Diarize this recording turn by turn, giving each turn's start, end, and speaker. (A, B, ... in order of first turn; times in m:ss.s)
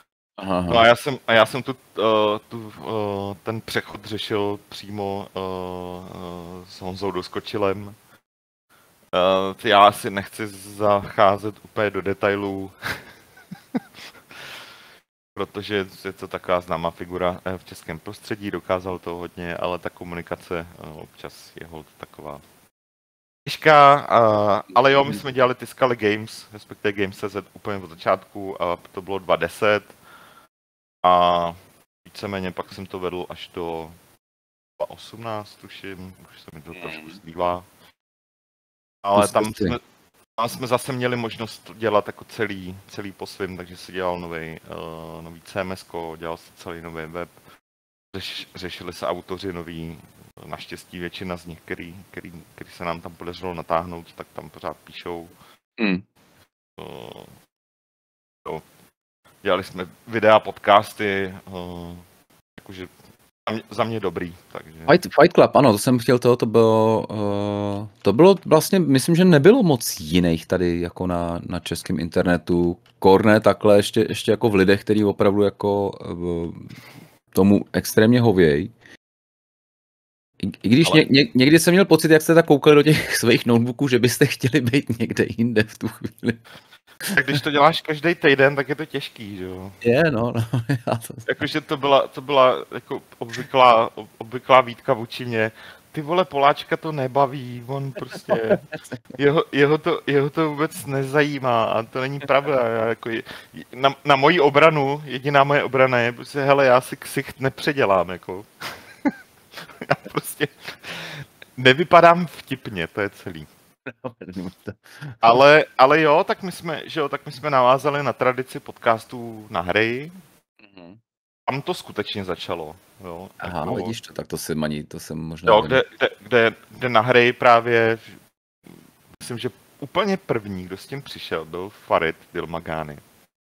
0:00.4-0:00.8 A
0:00.7-0:08.0 B
0:09.1-0:13.0 B
0:15.4-0:22.4 B
0:23.5-0:29.9 B
0:31.0-0:34.0 B
0:34.8-0:37.7 B
0:36.9-0:37.2 A
0:39.0-0:39.8 B
0:39.2-0:39.8 A
0:40.4-0:47.3 B
0:48.1-0:55.3 B
0:55.8-0:56.0 A
0:56.8-0:57.3 B
0:59.4-1:02.0 B
1:02.6-1:02.9 B
1:03.5-1:04.9 B
1:04.9-1:16.7 A
1:17.3-1:18.7 A
1:20.4-1:26.4 A
1:27.0-1:27.3 A
1:27.1-1:29.8 B
1:29.8-1:31.3 A
1:31.3-1:38.6 B
1:38.3-1:39.0 A
1:39.2-1:48.5 B
1:49.8-1:53.5 B
1:53.9-1:55.2 A
1:55.2-2:00.1 B
2:00.6-2:01.0 A
2:01.5-2:03.9 B
2:03.4-2:05.8 A
2:05.5-2:08.1 B
2:09.2-2:13.0 B